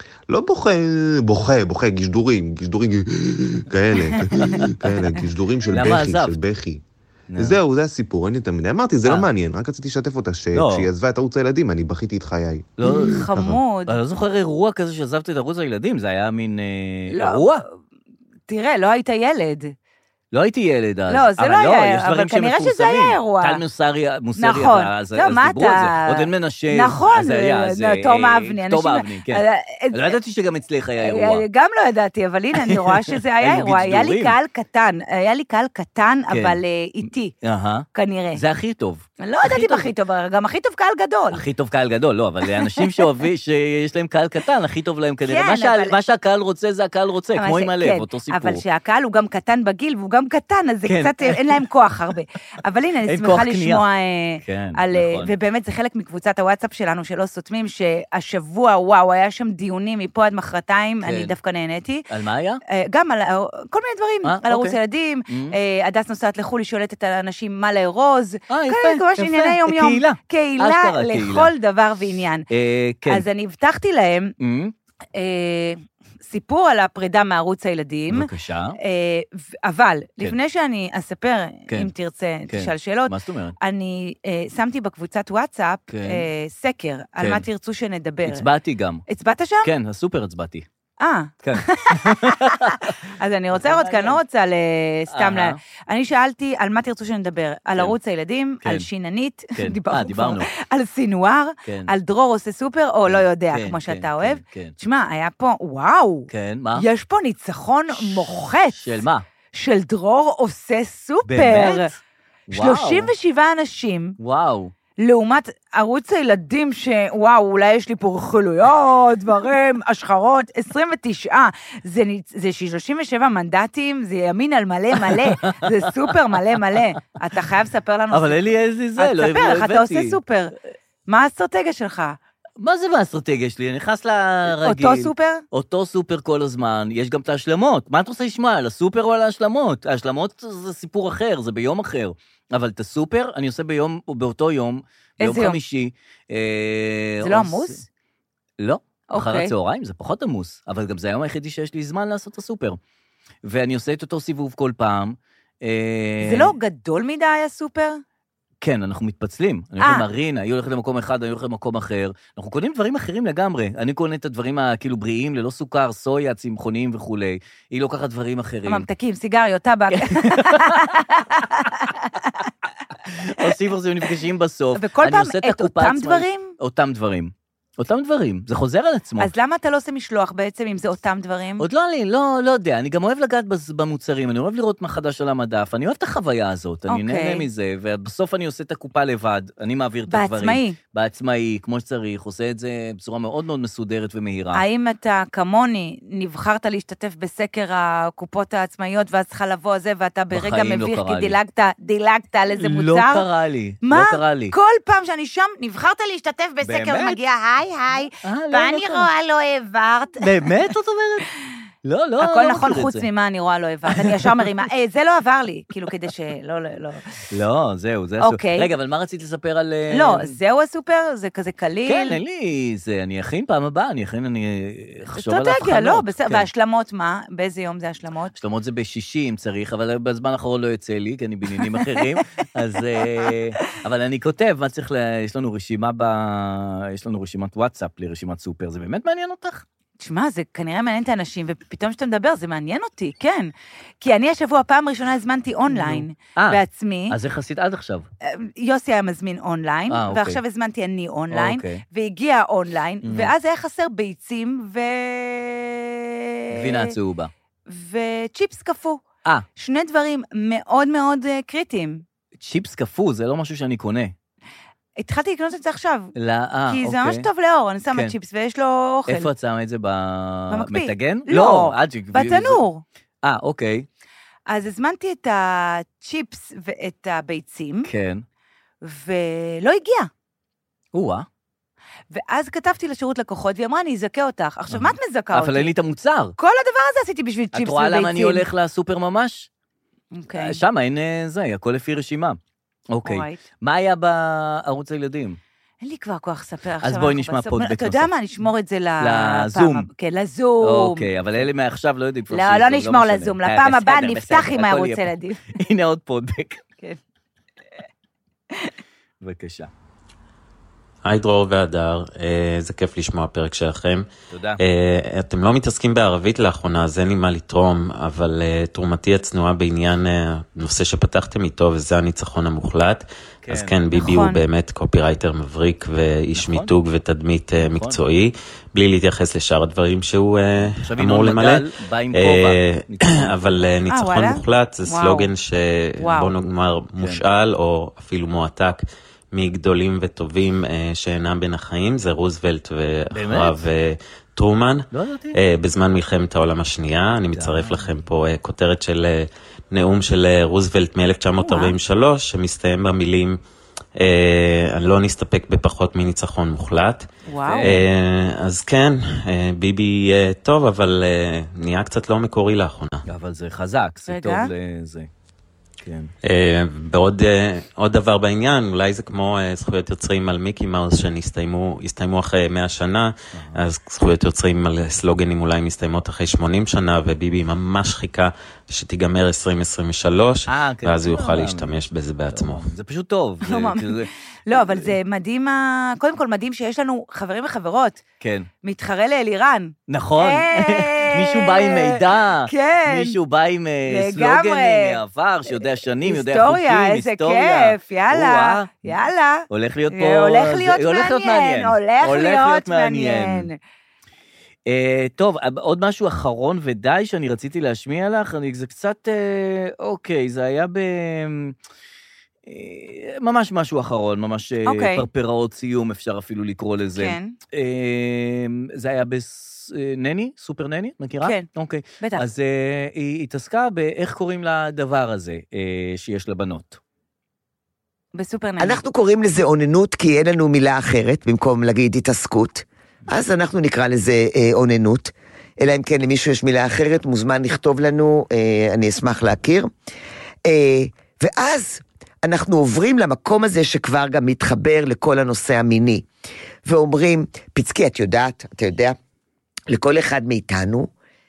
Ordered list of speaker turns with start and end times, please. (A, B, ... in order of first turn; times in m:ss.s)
0:00.3-0:06.8 A
0:04.4-0:04.7 B
0:05.7-0:06.4 B
0:07.3-0:07.6 B
0:07.4-0:13.6 A
0:10.5-0:10.9 B
0:12.8-0:13.2 B
0:13.1-0:14.0 C
0:13.9-0:17.6 B
0:17.1-0:17.8 C
0:18.5-0:19.7 C
0:20.3-0:31.4 B
0:21.1-0:23.6 C
0:24.4-0:30.1 C
0:31.0-0:37.3 C
0:32.6-0:34.4 B
0:36.3-0:39.9 B
0:37.9-0:38.4 C
0:39.2-0:41.4 C
0:41.3-0:48.6 B
0:42.6-0:43.0 C
0:45.2-0:46.0 C
0:47.4-1:02.1 C
0:50.8-0:51.6 B
0:53.0-0:53.8 B
0:54.4-0:55.3 B
1:01.0-1:01.3 B
1:02.1-1:02.6 B
1:02.7-1:12.4 C
1:04.2-1:05.6 B
1:08.5-1:11.5 B
1:12.5-1:13.2 B
1:13.0-1:14.3 C
1:14.4-1:14.7 B
1:15.1-1:28.5 C
1:18.1-1:18.8 B
1:22.5-1:23.6 B
1:25.9-1:26.3 B
1:27.2-1:27.4 B
1:28.2-1:29.0 B
1:29.1-1:29.7 C
1:29.6-1:30.6 B
1:31.0-1:48.9 C
1:31.4-1:33.0 B
1:33.5-1:34.2 B
1:35.1-1:35.6 B
1:38.6-1:38.9 B
1:39.6-1:40.5 B
1:41.6-1:41.9 B
1:43.0-1:44.8 B
1:46.3-1:46.8 B
1:47.9-1:49.2 B
1:49.5-1:51.9 C
1:51.2-1:53.1 B
1:52.5-1:54.2 C
1:54.2-1:54.7 B
1:55.0-2:10.5 C
2:05.0-2:06.8 B
2:08.1-2:10.2 B
2:11.1-2:12.2 C
2:12.6-2:27.8 B
2:14.6-2:15.4 C
2:25.2-2:25.6 C
2:27.2-2:27.8 C
2:28.6-2:32.8 B
2:29.1-2:29.5 C
2:33.4-2:36.5 B
2:36.2-2:38.0 C
2:38.6-2:48.9 B
2:39.8-2:40.1 C
2:48.6-2:52.5 C
2:49.9-2:51.0 B
2:53.1-2:59.3 B
2:54.7-2:56.6 C
2:59.2-3:01.7 C
3:01.6-3:14.6 B
3:06.9-3:07.5 C
3:10.1-3:10.8 C
3:14.5-3:23.2 C
3:20.3-3:21.4 B
3:22.5-3:24.6 B
3:23.8-3:30.7 C
3:26.6-3:27.2 B
3:28.2-3:29.1 B
3:30.2-3:31.3 B
3:31.8-3:33.1 B
3:32.2-3:37.0 C
3:33.9-3:34.5 B
3:37.3-3:40.4 B
3:38.2-3:38.7 C
3:39.9-3:42.2 C
3:41.8-3:46.5 B
3:45.1-3:48.3 C
3:48.3-3:59.6 B
3:51.8-3:52.0 C
4:00.0-4:07.2 C
4:05.6-4:08.1 B
4:08.2-4:16.9 C
4:09.9-4:10.4 B
4:11.3-4:11.8 B
4:13.0-4:13.3 B
4:16.5-4:17.3 B
4:17.7-4:19.0 C
4:19.6-4:22.0 C
4:22.4-4:24.1 B
4:25.0-4:26.1 C
4:26.2-4:27.3 B
4:26.7-4:29.3 C
4:29.1-4:32.6 B
4:30.5-4:32.8 C
4:33.2-4:33.9 B
4:34.5-4:37.9 C
4:37.8-4:38.2 B
4:38.8-4:40.1 C
4:40.9-4:41.3 B
4:42.1-4:45.7 C
4:44.7-4:46.4 B
4:46.4-4:48.4 C
4:47.5-4:49.5 B
4:50.1-4:50.6 C
4:50.3-4:52.4 B
4:52.9-4:55.4 B
4:53.0-4:53.4 C
4:55.8-5:01.1 C
4:56.8-4:58.1 B
4:59.0-4:59.9 B
5:00.6-5:06.6 B
5:02.3-5:05.4 C
5:09.2-5:09.7 B
5:11.0-5:14.0 D
5:14.3-5:14.6 B
5:14.6-5:53.4 D
5:23.4-5:23.8 B
5:23.9-5:24.4 C
5:26.4-5:26.7 B
5:27.7-5:28.0 B
5:30.8-5:33.7 B
5:33.9-5:35.3 C
5:36.0-5:36.3 C
5:43.1-5:43.6 B
5:44.9-5:45.3 B
5:47.3-5:48.0 B
5:51.4-5:51.8 C
5:54.0-5:57.0 D
5:57.2-5:57.8 C
5:57.4-5:57.8 B
5:57.6-6:03.0 D
6:03.1-6:05.1 B
6:04.1-6:04.5 C
6:05.8-6:06.1 B
6:06.2-6:22.7 D
6:20.5-6:21.7 B
6:22.3-6:24.9 B
6:23.4-6:28.0 C
6:28.2-6:28.5 B
6:28.6-6:33.2 C
6:29.9-6:39.0 B
6:33.8-6:43.6 C
6:39.5-6:43.5 B
6:44.6-6:51.5 B
6:52.4-7:06.8 B
6:54.6-6:55.0 C
6:56.9-6:57.4 C
7:01.2-7:01.4 C
7:02.0-7:02.2 C
7:08.1-7:08.8 C
7:08.6-7:19.7 E
7:20.4-7:26.0 E
7:26.6-7:29.0 E
7:29.7-7:30.9 E